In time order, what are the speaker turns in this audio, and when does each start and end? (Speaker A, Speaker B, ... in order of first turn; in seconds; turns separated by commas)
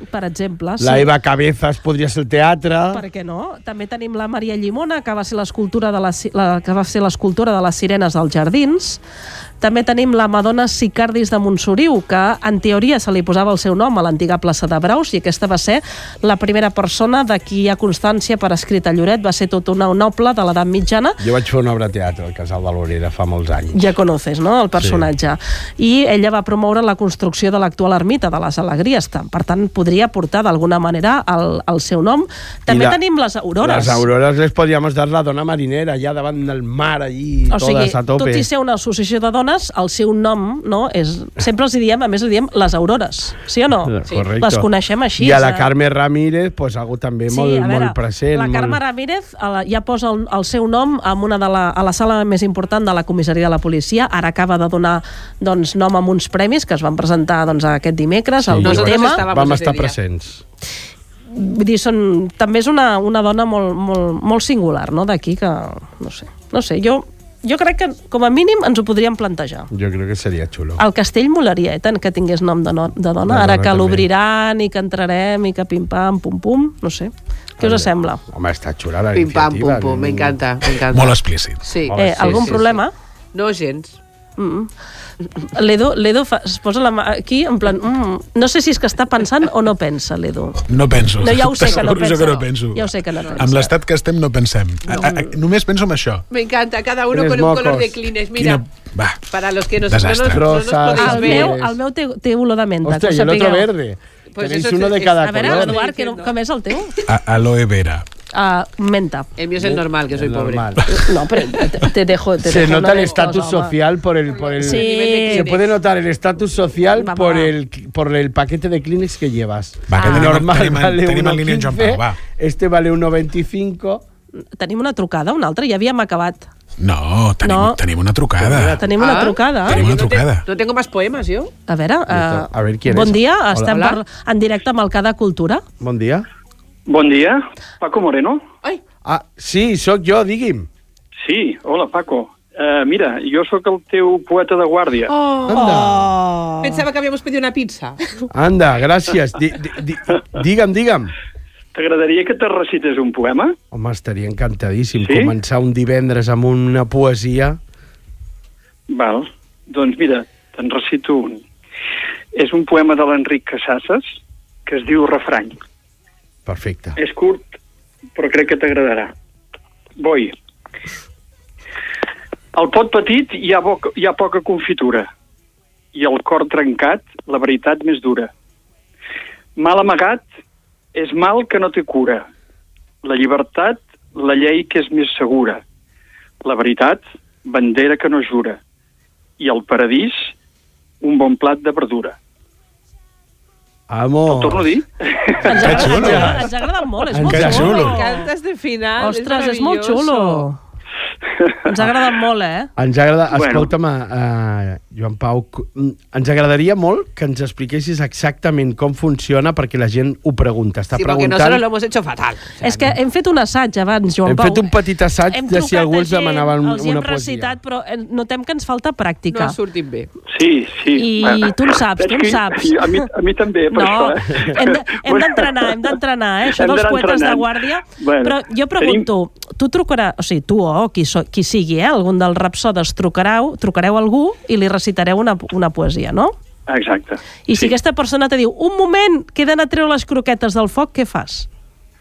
Speaker A: 0.1-1.1, Speaker B: 0.8-3.0, Speaker A: 2.9-9.0, Speaker A: 9.6-21.2, Speaker B: 21.2-23.8, Speaker A: 23.7-34.0, Speaker B: 24.8-25.1, Speaker B: 32.7-33.0, Speaker B: 33.6-38.5, Speaker A: 37.5-45.7, Speaker B: 43.9-48.8, Speaker A: 47.3-59.2, Speaker B: 58.4-60.4, Speaker C: 58.6-60.0, Speaker A: 61.3-69.7, Speaker B: 69.7-70.8, Speaker A: 70.8-78.2, Speaker B: 73.2-74.1, Speaker B: 77.6-80.4, Speaker C: 79.1-82.8, Speaker D: 80.9-81.6, Speaker B: 81.9-82.6, Speaker A: 82.0-82.9, Speaker C: 83.3-84.0, Speaker A: 84.4-84.7, Speaker A: 85.5-90.6, Speaker D: 90.7-96.3, Speaker A: 91.2-93.7, Speaker C: 93.2-93.6, Speaker C: 94.9-95.2, Speaker C: 96.3-98.7, Speaker B: 97.1-98.0, Speaker D: 98.4-99.2, Speaker C: 99.3-101.6, Speaker D: 99.9-100.5, Speaker B: 100.3-101.8, Speaker A: 101.0-103.7, Speaker B: 102.8-105.8, Speaker C: 104.3-106.3, Speaker A: 105.2-107.0, Speaker D: 107.1-108.0, Speaker A: 108.3-109.3, Speaker C: 109.4-110.8, Speaker B: 109.6-110.8, Speaker A: 110.9-113.8, Speaker B: 112.4-124.0, Speaker C: 114.3-115.7, Speaker A: 114.6-115.5, Speaker A: 117.0-117.5, Speaker D: 119.9-122.2, Speaker A: 120.0-120.4, Speaker A: 124.6-126.5, Speaker D: 126.8-128.8, Speaker A: 127.4-127.8, Speaker B: 128.4-128.9, Speaker A: 128.8-129.8, Speaker C: 128.9-131.5, Speaker D: 129.7-130.4, Speaker A: 131.7-135.6, Speaker B: 132.1-133.8, Speaker C: 133.7-134.0, Speaker B: 135.8-136.3, Speaker E: 136.9-138.4, Speaker B: 139.1-140.7, Speaker E: 141.2-145.1, Speaker C: 145.1-145.8, Speaker B: 145.5-146.1, Speaker A: 145.5-146.8, Speaker C: 146.6-148.0, Speaker B: 148.3-151.1, Speaker E: 151.7-153.6, Speaker B: 153.7-157.6, Speaker E: 155.0-155.3, Speaker E: 158.9-161.4, Speaker E: 162.3-164.1, Speaker E: 164.7-165.6, Speaker B: 166.5-167.0, Speaker E: 167.0-167.5, Speaker E: 168.2-169.1, Speaker E: 170.0-170.3, Speaker E: 172.5-175.1, Speaker E: 175.9-178.3, Speaker E: 179.6-180.3, Speaker E: 180.9-182.2, Speaker E: 183.0-185.6, Speaker E: 186.4-188.6, Speaker E: 189.4-190.3, Speaker E: 191.0-192.2, Speaker B: 193.9-194.7, Speaker E: 194.3-195.4, Speaker A: 195.4-198.2, Speaker D: 195.6-196.5, Speaker B: 195.6-196.4, Speaker B: 197.1-197.9, Speaker D: 197.3-198.0, Speaker C: 197.4-200.5, Speaker A: 199.0-200.6, Speaker A: 201.7-202.7, Speaker B: 202.8-211.6, Speaker E: 203.3-203.7, Speaker C: 210.9-212.9, Speaker A: 212.6-214.7, Speaker B: 214.2-217.6, Speaker A: 215.3-219.6, Speaker C: 219.3-220.1, Speaker E: 220.3-226.0, Speaker A: 220.9-223.1, Speaker A: 223.7-236.3, Speaker E: 226.5-229.1, Speaker E: 236.7-237.7, Speaker A: 237.5-241.5